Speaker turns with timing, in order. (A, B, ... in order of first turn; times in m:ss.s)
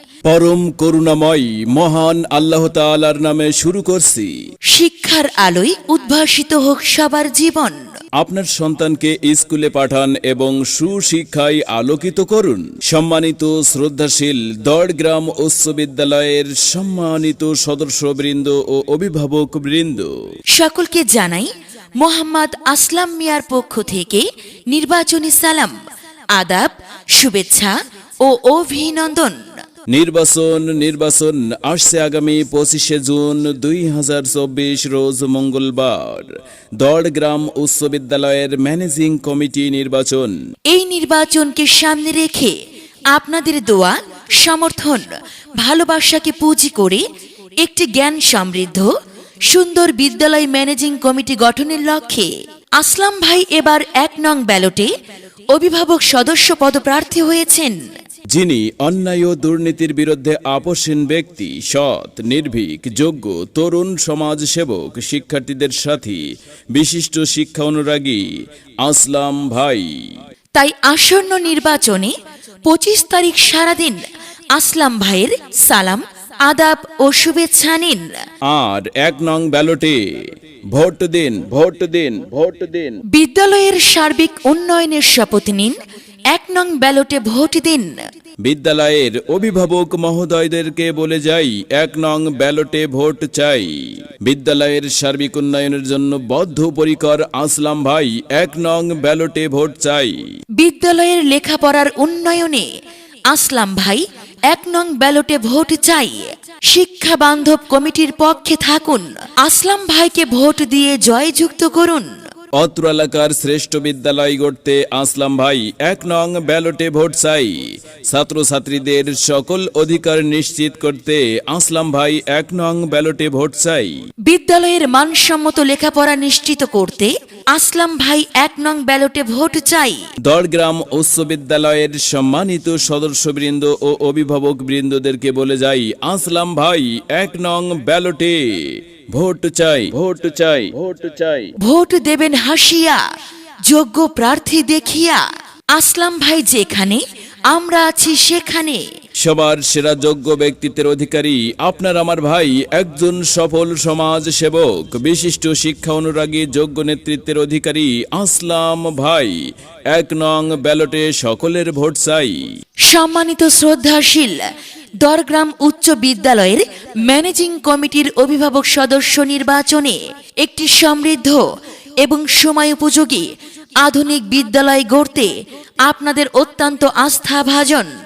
0:00.2-0:04.4 A
0:04.7-0:07.8 B
0:08.2-0:20.1 A
0:20.5-0:25.7 B
0:26.3-0:29.5 B
0:29.9-0:40.4 A
0:40.7-0:42.6 B
0:43.1-0:47.0 B
0:47.6-0:48.9 B
0:49.5-0:54.9 B
0:55.5-0:57.8 B
0:58.3-1:10.2 A
1:10.5-1:12.1 B
1:12.6-1:14.0 B
1:14.5-1:18.2 B
1:18.5-1:23.0 A
1:23.1-1:25.8 B
1:26.3-1:27.9 B
1:28.4-1:40.3 A
1:40.6-1:42.7 B
1:43.3-1:52.1 B
1:52.6-2:03.9 A
2:04.3-2:10.1 B
2:10.2-2:21.5 A
2:21.6-2:23.0 B
2:23.7-2:25.2 B
2:25.7-2:28.8 B
2:29.2-2:42.5 A
2:42.9-2:44.4 B
2:45.0-2:51.4 B
2:52.0-2:53.3 B
2:53.8-2:55.3 B
2:55.8-2:57.9 B